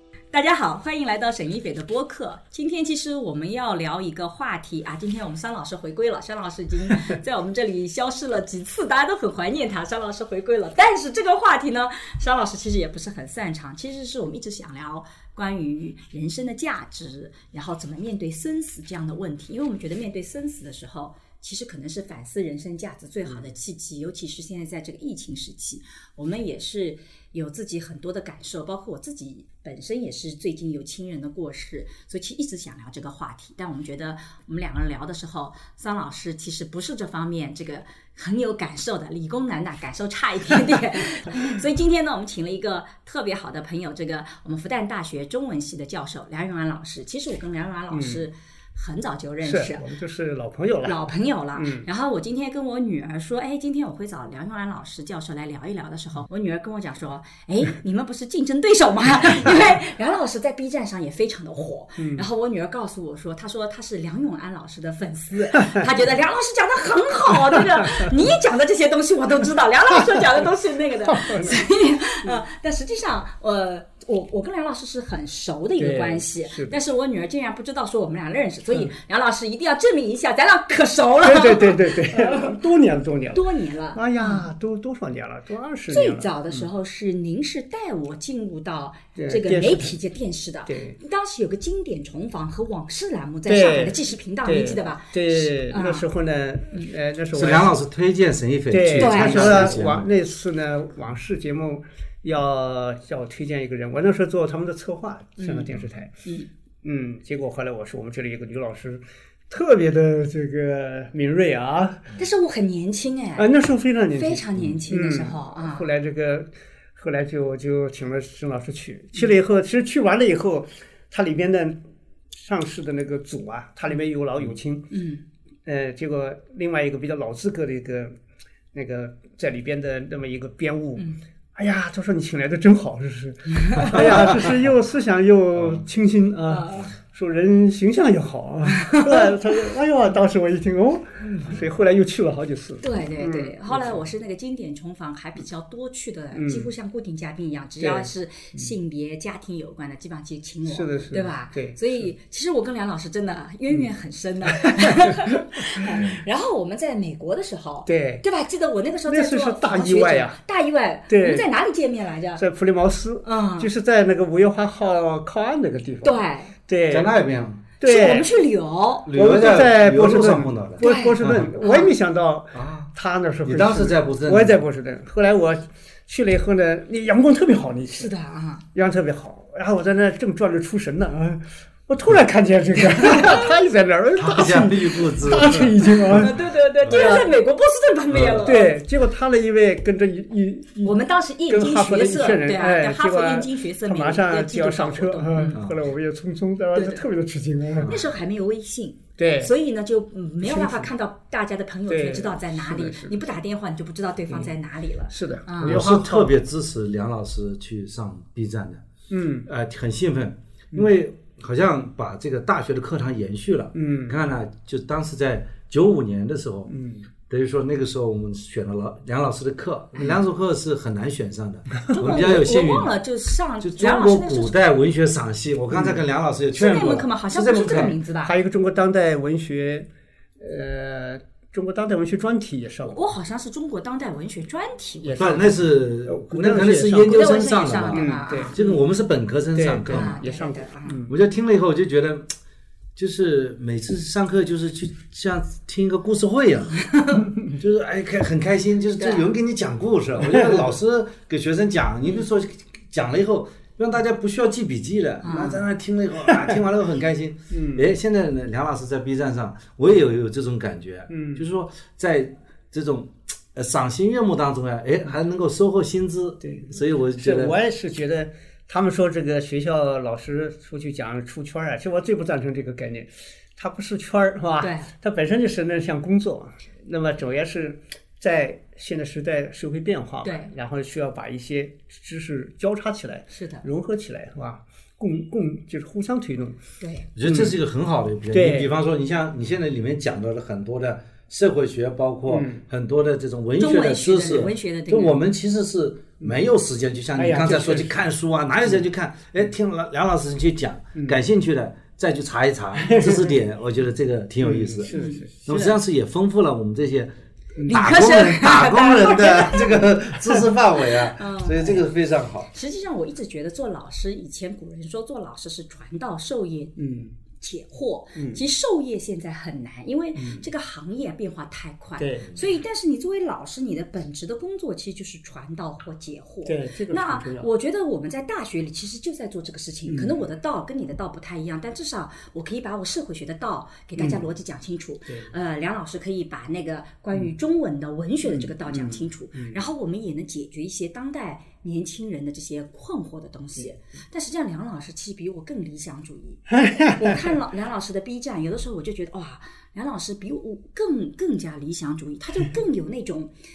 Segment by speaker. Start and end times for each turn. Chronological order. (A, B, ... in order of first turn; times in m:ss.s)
0:00.3-0:49.8 A
0:47.9-0:48.2 B
0:49.4-0:51.0 B
0:50.8-1:22.5 A
0:51.6-0:51.9 B
1:02.0-1:02.2 B
1:11.0-1:11.6 B
1:15.8-1:16.8 B
1:21.2-1:26.7 B
1:23.3-1:24.5 A
1:25.9-1:36.1 A
1:29.2-1:30.0 B
1:30.7-1:31.0 B
1:33.4-1:37.7 B
1:37.3-1:40.1 C
1:38.7-1:46.1 B
1:39.0-1:39.8 A
1:45.4-1:45.7 A
1:46.2-1:46.5 A
1:46.8-1:52.1 B
1:52.2-1:53.5 A
1:53.4-2:01.8 B
1:54.2-1:55.9 A
2:02.3-2:04.9 B
2:04.9-2:05.2 A
2:05.6-2:08.2 B
2:08.7-2:24.1 B
2:13.6-2:14.0 A
2:13.9-2:14.4 C
2:15.6-2:15.8 C
2:16.5-2:16.9 A
2:18.7-2:19.6 A
2:21.2-2:21.6 A
2:22.8-2:42.4 A
2:26.3-2:26.7 B
2:27.8-2:28.7 B
2:30.6-2:32.1 B
2:34.7-2:36.2 B
2:37.9-2:38.2 B
2:39.0-2:40.4 B
2:41.1-2:41.5 B
2:42.4-2:47.1 B
2:43.2-2:43.7 A
2:46.0-2:46.5 A
2:46.9-2:47.6 C
2:47.8-2:48.3 B
2:47.8-2:49.1 A
2:49.0-2:51.5 C
2:49.1-2:58.1 B
2:50.8-2:51.9 A
2:52.5-2:52.9 C
2:53.4-2:54.6 C
2:57.9-2:58.6 A
2:58.7-3:07.3 B
3:04.2-3:06.3 C
3:06.2-3:08.8 A
3:06.8-3:07.2 C
3:08.1-3:08.4 C
3:08.4-3:18.0 B
3:10.8-3:15.6 A
3:15.5-3:15.8 C
3:16.7-3:17.0 A
3:17.8-3:25.8 A
3:19.2-3:19.5 B
3:20.4-3:20.9 B
3:21.9-3:23.3 B
3:24.3-3:24.5 B
3:25.1-3:26.3 B
3:25.6-3:28.8 C
3:29.1-3:29.5 B
3:29.4-3:36.7 C
3:33.7-3:34.2 B
3:36.7-3:37.1 B
3:37.3-3:43.0 C
3:41.9-3:44.6 A
3:43.6-3:48.0 C
3:45.7-3:46.0 B
3:46.5-3:48.3 A
3:47.8-3:53.0 B
3:52.8-3:55.4 A
3:55.0-3:58.8 B
3:55.2-4:00.1 C
3:57.1-3:58.6 A
3:59.5-4:01.1 B
3:59.9-4:01.0 A
4:01.1-4:02.3 C
4:03.0-4:06.9 C
4:06.8-4:07.3 A
4:07.5-4:27.6 C
4:09.0-4:09.3 A
4:10.2-4:10.6 B
4:15.2-4:15.6 A
4:17.5-4:17.9 B
4:21.1-4:21.4 B
4:26.4-4:46.6 B
4:34.6-4:34.9 A
4:40.2-4:40.5 A
4:43.3-4:43.6 A
4:46.8-4:47.1 A
4:47.2-5:04.9 C
4:47.2-4:47.6 B
4:48.3-4:48.7 B
4:52.3-4:52.6 B
4:53.6-4:55.2 A
4:57.2-4:58.0 B
5:00.9-5:01.2 B
5:02.8-5:03.4 B
5:04.4-5:05.3 B
5:04.9-5:05.7 A
5:05.4-5:12.5 C
5:07.6-5:07.8 B
5:07.6-5:09.9 A
5:11.0-5:11.8 A
5:12.5-5:16.8 A
5:16.8-5:17.2 B
5:17.4-5:53.3 A
5:18.2-5:18.4 B
5:20.1-5:20.5 B
5:22.0-5:22.4 B
5:26.4-5:27.5 B
5:29.9-5:30.2 B
5:34.0-5:34.3 B
5:35.1-5:35.3 B
5:38.2-5:39.6 B
5:46.5-5:47.3 B